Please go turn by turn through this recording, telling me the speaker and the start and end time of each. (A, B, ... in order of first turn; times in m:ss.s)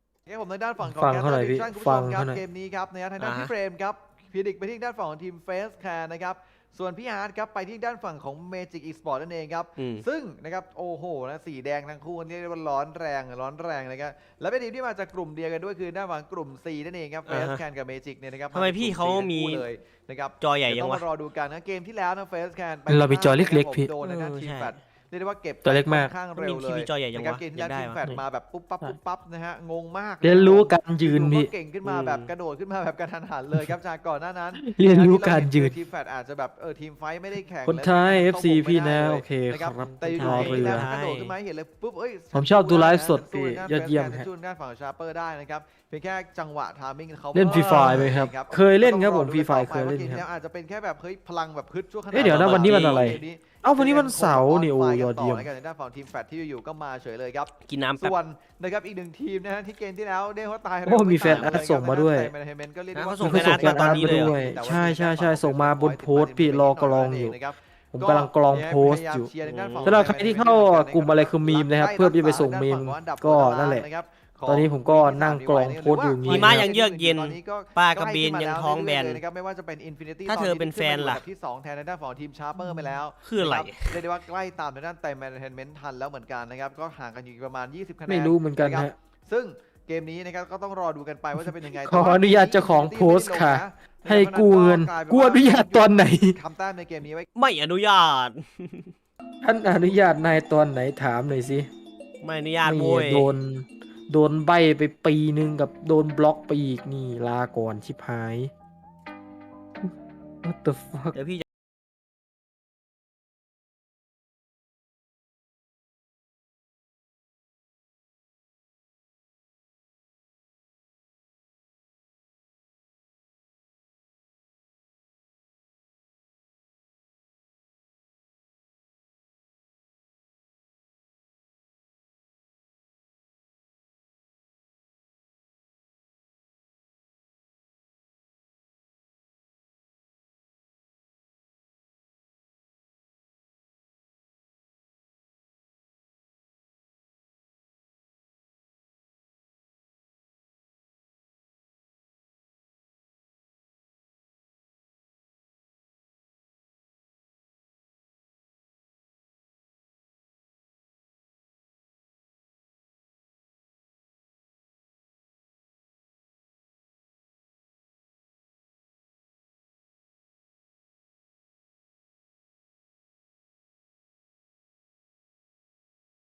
0:00.3-1:37.3 A
0:00.8-0:02.4 B
0:03.2-0:03.5 C
0:09.8-0:10.0 C
0:17.3-0:17.6 C
0:18.5-0:19.7 C
0:20.4-0:21.0 C
0:22.9-0:23.9 B
0:24.0-0:24.8 C
0:25.6-0:26.1 B
0:26.4-0:28.0 C
0:30.2-0:31.5 B
0:31.8-0:32.3 C
0:34.6-0:35.7 B
0:37.6-0:40.9 B
0:39.8-0:41.3 C
0:42.3-0:44.3 B
0:47.3-0:50.2 B
0:47.5-0:48.1 C
0:52.1-0:55.5 B
0:52.2-0:53.2 C
0:57.7-0:58.2 C
1:00.8-1:02.3 B
1:01.2-1:01.6 C
1:02.9-1:04.4 C
1:03.2-1:07.4 B
1:07.9-1:09.3 B
1:09.4-1:10.0 C
1:09.8-1:13.9 B
1:14.5-1:16.7 B
1:16.3-1:19.2 C
1:20.3-1:21.2 C
1:22.6-1:23.0 B
1:23.2-1:24.0 C
1:28.1-1:28.9 B
1:31.8-1:36.4 B
1:37.4-1:38.9 C
1:39.4-1:41.7 B
1:42.2-1:43.3 C
1:42.6-1:48.5 B
1:50.4-1:51.2 B
1:51.1-1:51.4 C